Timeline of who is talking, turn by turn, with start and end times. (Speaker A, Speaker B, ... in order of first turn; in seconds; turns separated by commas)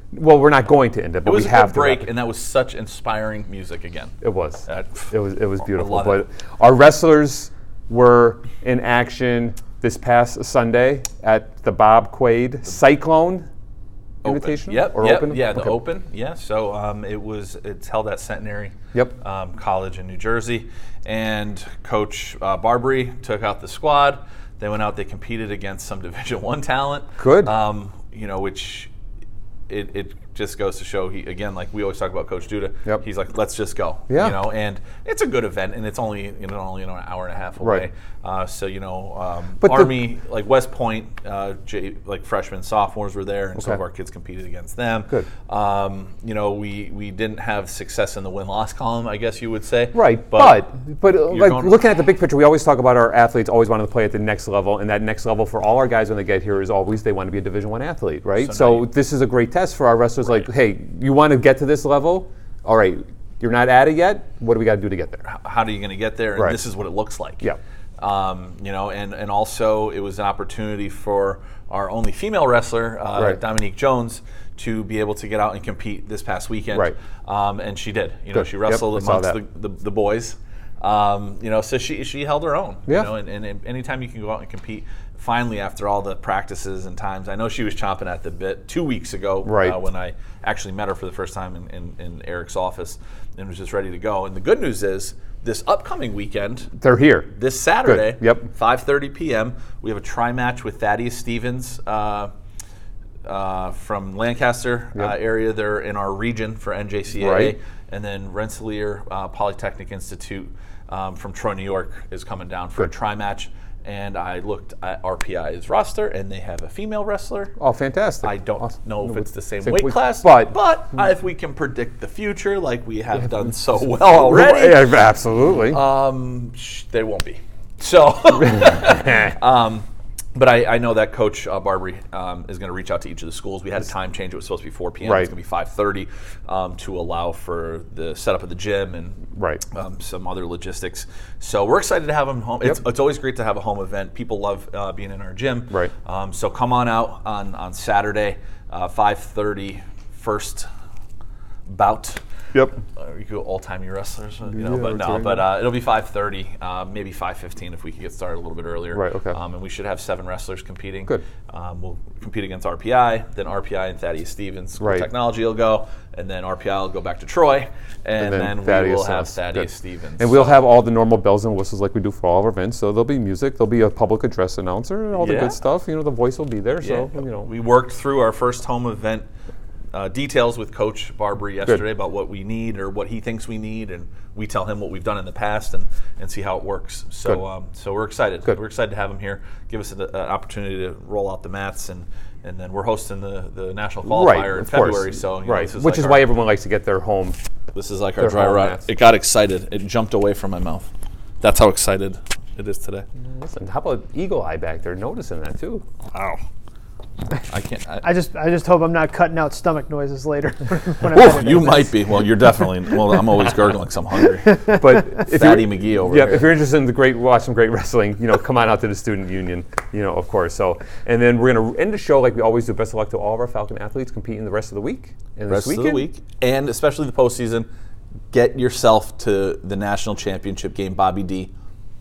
Speaker A: 0.1-2.1, Speaker B: 1.2-4.1, Speaker A: 4.2-13.5, Speaker B: 4.7-6.2, Speaker A: 14.2-15.8, Speaker B: 14.2-28.9, Speaker A: 27.2-27.5, Speaker B: 29.7-51.7, Speaker A: 34.1-34.4, Speaker A: 39.6-40.0, Speaker A: 49.9-65.2, Speaker B: 58.4-58.9, Speaker B: 65.2-96.7, Speaker A: 78.3-79.4, Speaker A: 89.4-89.8, Speaker A: 96.8-97.3, Speaker B: 97.3-102.3, Speaker A: 97.8-98.5, Speaker B: 103.2-117.5, Speaker A: 107.2-107.5, Speaker A: 117.6-120.5, Speaker B: 118.2-125.0, Speaker A: 124.0-125.8, Speaker B: 125.5-150.7, Speaker A: 135.0-135.3, Speaker A: 139.3-139.6, Speaker B: 151.7-152.2, Speaker B: 152.7-170.6, Speaker A: 154.5-155.5, Speaker A: 158.9-159.3, Speaker A: 164.8-165.1, Speaker A: 168.2-169.7, Speaker A: 170.2-177.5, Speaker B: 175.2-175.6, Speaker B: 176.8-179.2, Speaker B: 179.9-196.3, Speaker A: 194.0-197.4, Speaker B: 197.7-200.9, Speaker A: 198.2-198.8, Speaker B: 201.4-203.0, Speaker A: 203.2-205.8, Speaker B: 206.1-206.4, Speaker B: 207.4-208.1, Speaker C: 208.0-211.9, Speaker B: 211.1-216.5, Speaker A: 214.7-226.1, Speaker B: 225.5-227.7, Speaker B: 228.3-231.5